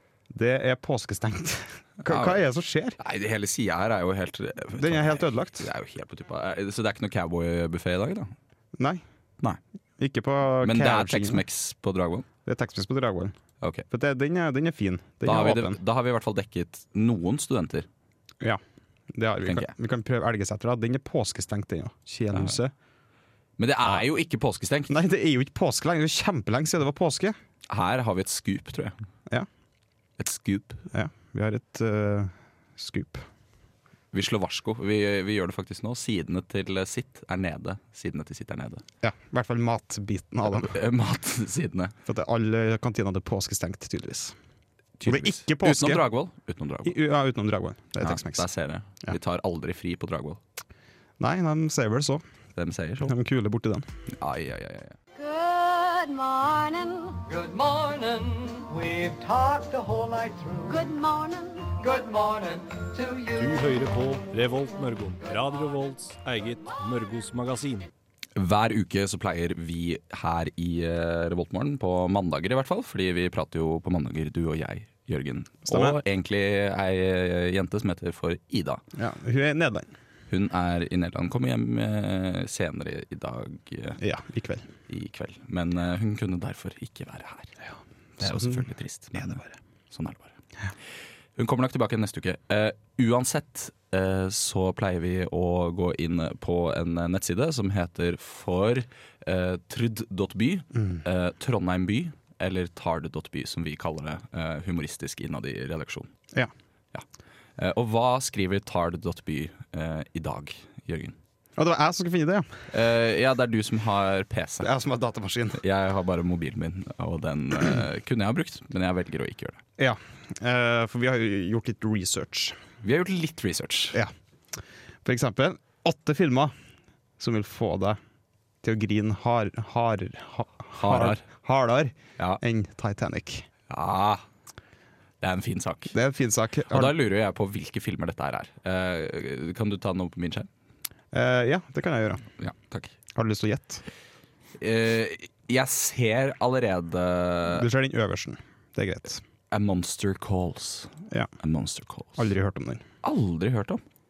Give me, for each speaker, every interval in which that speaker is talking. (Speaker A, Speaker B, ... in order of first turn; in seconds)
Speaker A: 0.3-3.0, 4.8-5.7, 8.7-9.0, 10.0-11.4, 12.4-13.3, 13.9-15.8, 19.1-22.7, 24.9-27.4, 30.9-33.2, 39.0-40.7, 42.0-44.4, 45.0-46.0, 46.8-48.5, 51.2-52.2, 53.0-53.9, 75.7-76.0, 78.9-79.9, 84.0-84.7, 88.2-88.6, 111.6-112.5, 114.6-115.6, 119.8-122.6, 125.0-126.5, 127.2-128.0, 128.6-133.5, 135.9-136.9, 141.1-142.2, 143.1-143.8, 147.5-149.2, 152.2-152.8
Speaker B: 2.0-2.4, 3.0-8.3, 10.6-12.3, 15.2-17.9, 19.4-19.7, 23.6-24.9, 27.7-29.0, 30.2-30.9, 34.1-38.8, 40.5-41.9, 45.0-47.0, 48.0-50.4, 52.5-53.1, 54.1-55.0, 68.3-78.8, 80.3-84.0, 84.9-87.5, 88.2-90.3, 91.3-106.1, 107.6-111.2, 112.7-114.7, 115.5-119.6, 122.8-124.0, 130.7-131.2, 133.7-134.2, 135.2-135.9, 136.7-140.5, 142.4-142.9, 144.6-147.7, 149.5-152.3, 153.0-153.8
Speaker C: 57.2-60.7, 61.8-63.2
Speaker D: 63.3-67.9